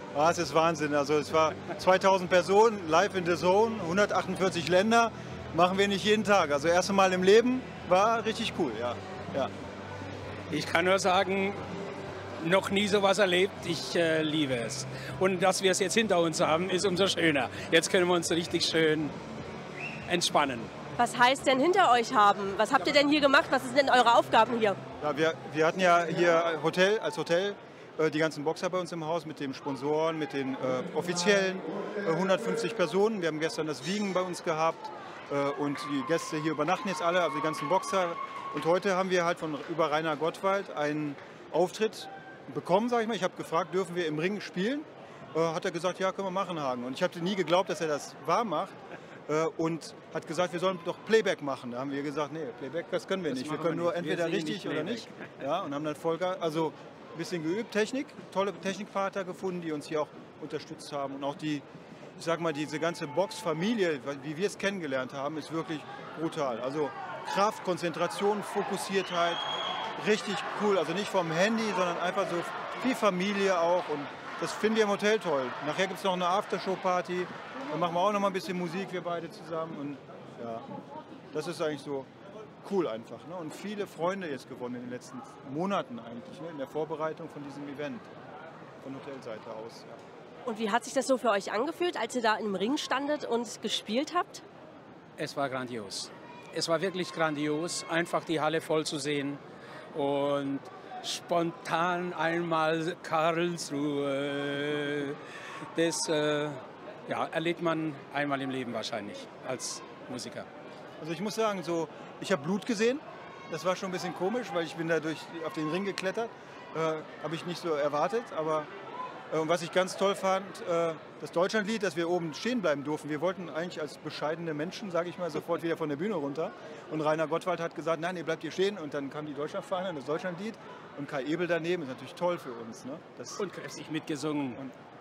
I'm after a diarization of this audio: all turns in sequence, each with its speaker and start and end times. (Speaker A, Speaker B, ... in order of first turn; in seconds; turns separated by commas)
Speaker A: 0.1-9.5, Speaker B: 10.5-11.6, Speaker B: 12.4-19.1, Speaker B: 20.1-20.7, Speaker C: 21.0-24.8, Speaker A: 25.0-48.7, Speaker A: 49.3-61.6, Speaker B: 53.3-55.1, Speaker A: 62.2-69.4, Speaker A: 70.0-80.6, Speaker A: 81.3-82.1, Speaker A: 82.6-88.1, Speaker A: 88.8-90.0, Speaker C: 90.5-94.4, Speaker B: 95.2-99.4, Speaker B: 99.9-105.2, Speaker B: 105.7-110.5, Speaker A: 111.0-118.7, Speaker A: 119.3-133.4, Speaker B: 133.4-134.6